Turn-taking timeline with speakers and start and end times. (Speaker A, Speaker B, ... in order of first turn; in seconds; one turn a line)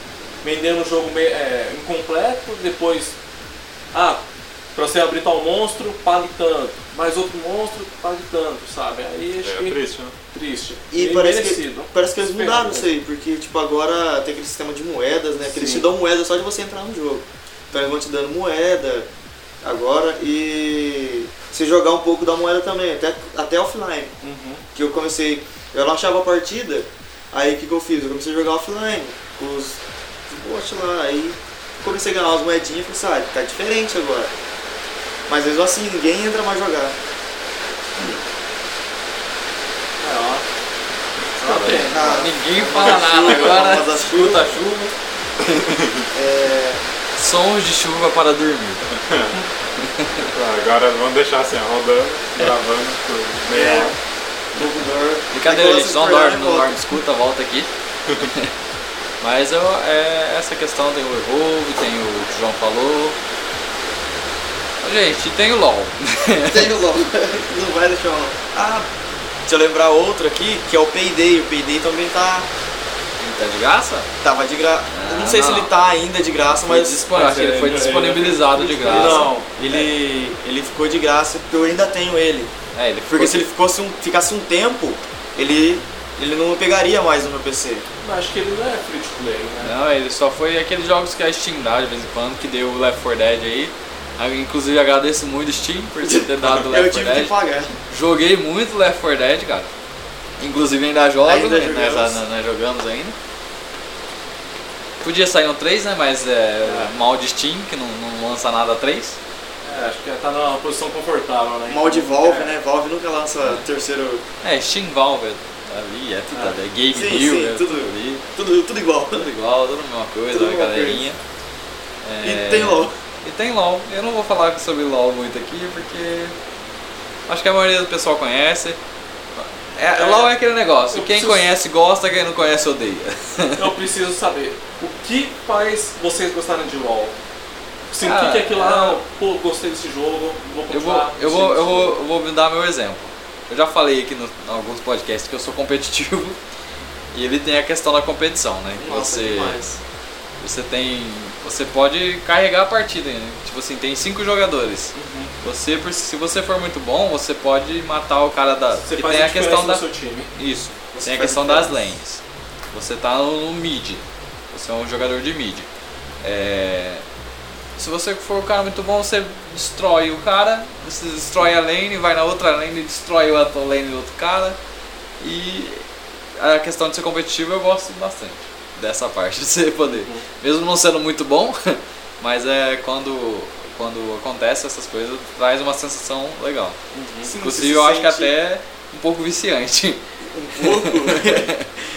Speaker A: 0.4-3.1
Speaker A: 3.9-4.2
Speaker A: 4.7-9.8
Speaker B: 9.4-10.1
Speaker A: 10.3-12.9
Speaker C: 10.9-19.1
Speaker A: 15.4-15.9
Speaker C: 19.6-24.1
Speaker A: 24.2-24.6
Speaker C: 24.7-34.3
Speaker C: 35.3-37.0
Speaker A: 40.0-40.4
Speaker A: 41.4-42.2
Speaker C: 41.5-44.6
Speaker B: 41.5-41.8
Speaker D: 41.6-44.6
Speaker A: 44.1-44.9
Speaker C: 46.1-46.8
Speaker D: 47.1-48.9
Speaker B: 49.0-49.4
Speaker D: 49.8-50.3
Speaker B: 50.2-54.0
Speaker C: 53.5-54.0
Speaker C: 54.5-56.8
Speaker D: 55.3-58.5
Speaker D: 59.2-63.1
Speaker D: 64.8-66.7
Speaker C: 66.4-68.9
Speaker C: 69.5-72.5
Speaker D: 73.2-74.1
Speaker C: 74.2-77.0
Speaker D: 74.9-75.7
Speaker D: 76.5-79.3
Speaker A: 77.1-79.8
Speaker C: 78.8-82.5
Speaker D: 82.7-83.5
Speaker C: 83.1-87.8
Speaker A: 88.0-89.7
Speaker D: 89.6-97.3
Speaker C: 96.0-97.8
Speaker D: 97.9-99.7
Speaker D: 100.4-103.1
Speaker C: 101.2-102.2
Speaker D: 105.0-109.2
Speaker A: 106.6-106.9
Speaker A: 109.6-112.5
Speaker C: 111.7-114.2
Speaker D: 114.4-118.2
Speaker A: 116.3-116.6
Speaker C: 116.9-119.3
Speaker D: 119.1-121.2
Speaker C: 120.3-121.1
Speaker D: 122.0-126.3
Speaker C: 122.2-122.9
Speaker D: 127.3-128.8
Speaker D: 129.3-133.7
Speaker A: 129.9-130.3
Speaker A: 130.9-131.5
Speaker A: 133.5-137.2
Speaker A: 137.9-141.9
Speaker D: 138.0-139.0
Speaker D: 140.7-146.4
Speaker D: 147.1-149.6
Speaker C: 148.8-149.8
Speaker D: 150.4-162.2
Speaker A: 154.9-155.3
Speaker A: 158.8-160.3
Speaker C: 160.9-161.8
Speaker D: 162.7-165.7
Speaker D: 166.2-167.0
Speaker D: 167.8-174.6
Speaker D: 175.2-175.8
Speaker D: 176.4-186.8
Speaker A: 179.8-180.2
Speaker A: 186.9-187.3
Speaker C: 187.2-188.3
Speaker D: 187.4-190.0
Speaker C: 190.2-191.5
Speaker D: 190.6-191.7